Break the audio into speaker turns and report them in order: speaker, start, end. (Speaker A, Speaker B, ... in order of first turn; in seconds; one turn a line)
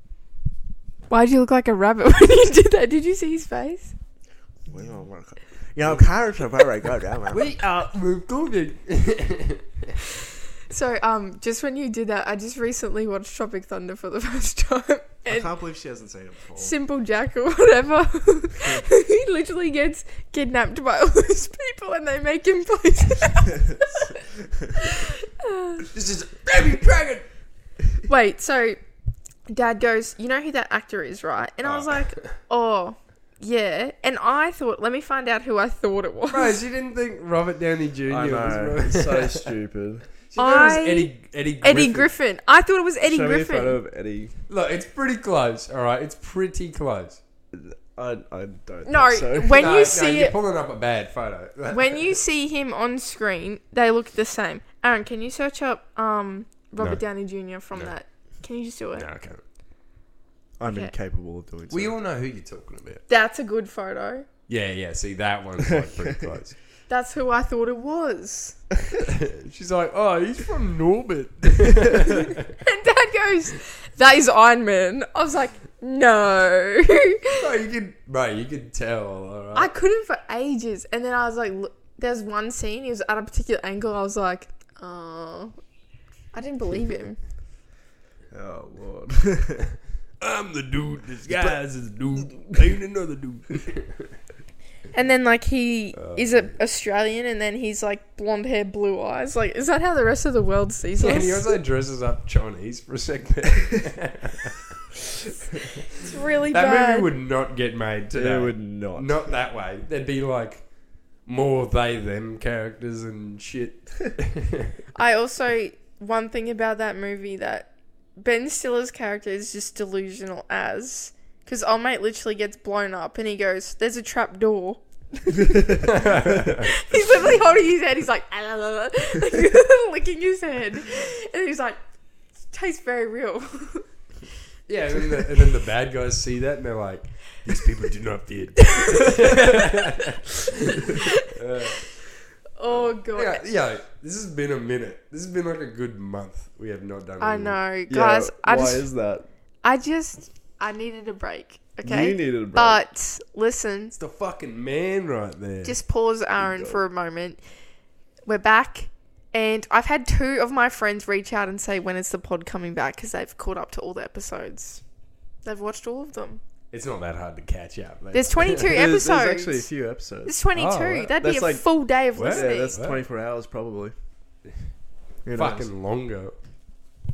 Speaker A: 1.1-4.0
Speaker B: 4.7-7.5
Speaker C: 7.3-10.0
Speaker A: 10.7-15.5
Speaker B: 15.3-16.7
Speaker A: 16.6-25.9
Speaker C: 25.9-27.3
Speaker A: 28.1-28.8
Speaker A: 29.5-36.6
Speaker C: 31.6-32.4
Speaker C: 36.3-39.5
Speaker B: 38.1-40.0
Speaker C: 40.2-42.1
Speaker A: 40.4-43.8
Speaker B: 43.0-44.3
Speaker C: 44.5-47.2
Speaker B: 47.5-49.8
Speaker A: 48.9-50.4
Speaker C: 49.6-52.1
Speaker A: 51.7-59.0
Speaker C: 59.0-59.4
Speaker B: 60.6-61.9
Speaker A: 60.7-60.9
Speaker C: 61.7-63.0
Speaker A: 63.1-64.3
Speaker C: 64.5-66.5
Speaker A: 66.9-68.6
Speaker C: 69.1-72.6
Speaker A: 72.6-77.4
Speaker C: 77.3-79.7
Speaker A: 79.5-85.5
Speaker A: 86.3-87.2
Speaker B: 88.3-89.7
Speaker C: 90.2-94.2
Speaker B: 91.2-91.6
Speaker A: 94.9-101.5
Speaker C: 96.0-96.6
Speaker C: 101.0-104.7
Speaker C: 105.6-110.7
Speaker A: 105.9-107.1
Speaker B: 108.1-109.4
Speaker C: 111.2-114.8
Speaker A: 115.0-131.8
Speaker C: 125.8-126.7
Speaker A: 132.5-133.9
Speaker C: 134.7-141.9
Speaker A: 135.0-135.3
Speaker A: 138.7-139.4
Speaker A: 141.0-141.8
Speaker A: 142.6-143.5
Speaker C: 142.7-147.6
Speaker A: 147.2-148.9
Speaker B: 147.9-149.3
Speaker A: 149.6-154.0
Speaker B: 151.8-152.8
Speaker C: 154.0-155.8
Speaker A: 155.6-157.4
Speaker B: 156.4-156.8
Speaker A: 158.3-164.8
Speaker A: 165.4-166.4
Speaker C: 166.7-168.7
Speaker A: 168.1-169.7
Speaker B: 168.6-170.4
Speaker A: 170.2-172.8
Speaker C: 170.6-171.1
Speaker B: 171.0-173.9
Speaker C: 172.1-173.0
Speaker B: 175.2-175.7
Speaker C: 175.3-176.4